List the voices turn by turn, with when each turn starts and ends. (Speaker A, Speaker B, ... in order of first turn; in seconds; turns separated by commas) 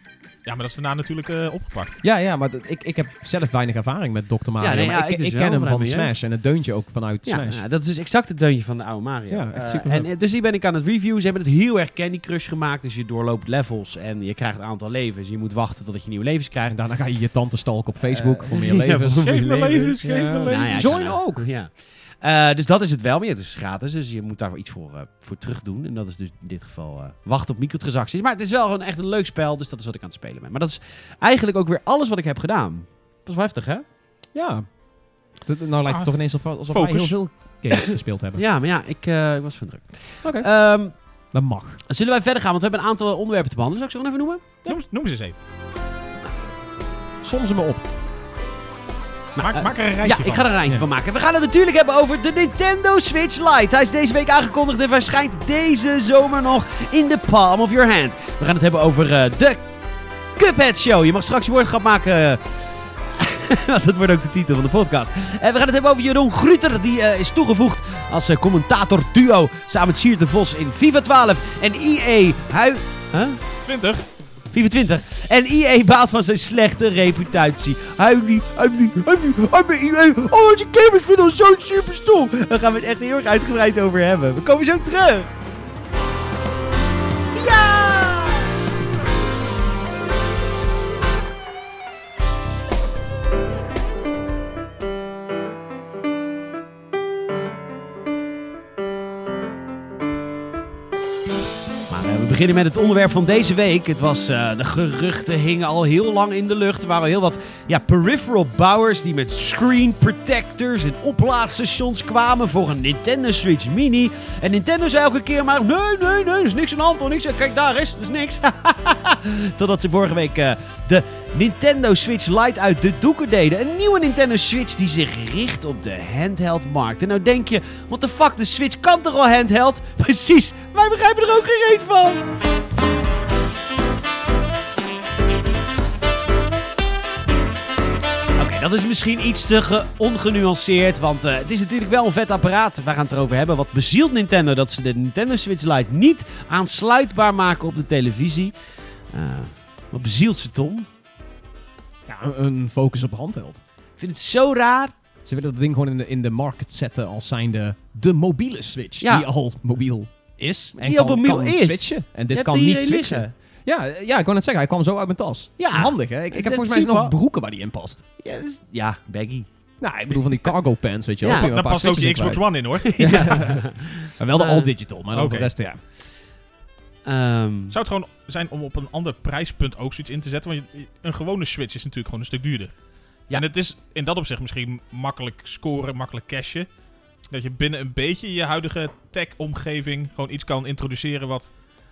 Speaker A: 0.4-2.0, Speaker B: 2.0-7.6, Speaker C: 4.6-6.1, Speaker C: 7.2-16.8, Speaker B: 9.3-10.1, Speaker B: 16.7-19.3, Speaker C: 18.0-33.8, Speaker A: 19.2-21.1, Speaker B: 20.0-21.5, Speaker B: 34.3-34.6, Speaker B: 35.4-38.4, Speaker A: 36.7-37.1, Speaker C: 38.3-41.0, Speaker B: 40.2-40.5, Speaker B: 41.3-41.8, Speaker C: 41.9-44.4, Speaker A: 44.6-45.4, Speaker B: 47.2-47.8, Speaker C: 49.3-59.7, Speaker A: 49.4-50.5, Speaker C: 60.4-62.4, Speaker C: 63.0-73.4, Speaker A: 73.6-74.0, Speaker C: 74.5-85.3, Speaker C: 87.3-88.5, Speaker C: 101.9-132.2, Speaker C: 138.4-148.5, Speaker C: 149.1-150.9, Speaker B: 152.1-153.6, Speaker C: 154.0-154.9, Speaker B: 155.2-168.0, Speaker C: 159.0-159.3, Speaker C: 160.7-163.3, Speaker C: 165.6-167.1, Speaker C: 168.2-169.5, Speaker B: 169.8-175.8, Speaker C: 171.2-171.5, Speaker A: 171.3-173.6, Speaker C: 172.8-174.7, Speaker A: 175.1-175.5, Speaker C: 177.1-177.8, Speaker A: 177.7-182.7, Speaker A: 183.3-186.7, Speaker A: 187.3-191.5